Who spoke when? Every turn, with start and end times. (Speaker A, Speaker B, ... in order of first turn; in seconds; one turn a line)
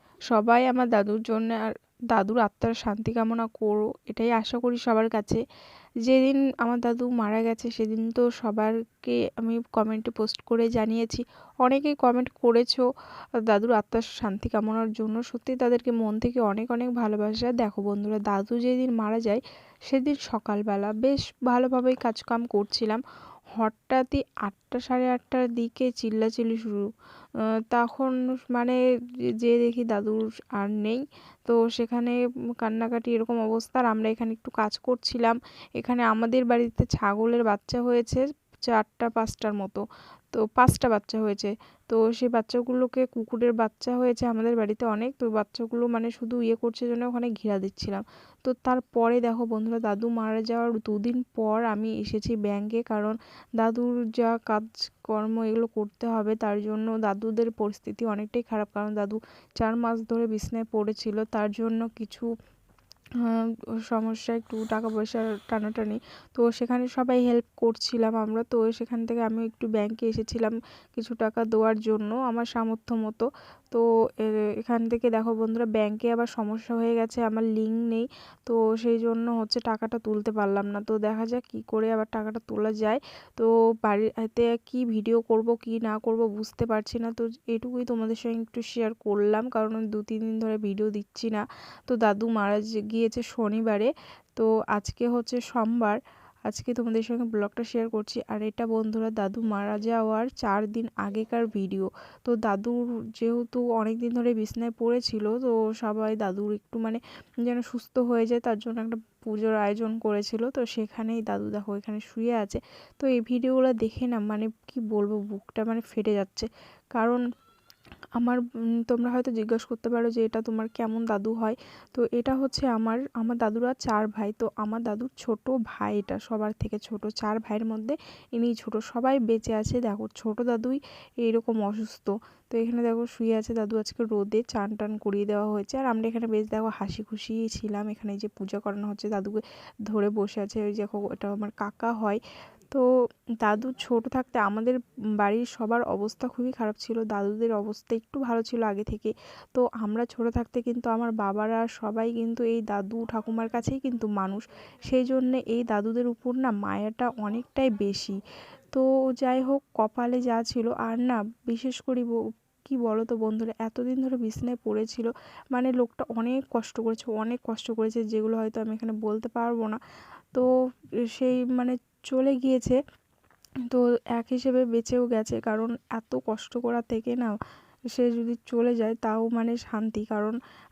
Speaker A: 0.3-5.4
Speaker A: 6.0-12.9
Speaker A: 13.4-23.0
Speaker A: 23.6-26.9
Speaker A: 27.7-28.8
Speaker A: 29.4-62.3
Speaker A: 63.2-96.0
Speaker A: 96.5-117.2
Speaker A: 118.2-142.2
Speaker A: 143.4-158.2
Speaker A: 158.7-169.8
Speaker A: 171.1-172.8
Speaker A: 173.7-177.4
Speaker A: 177.9-180.3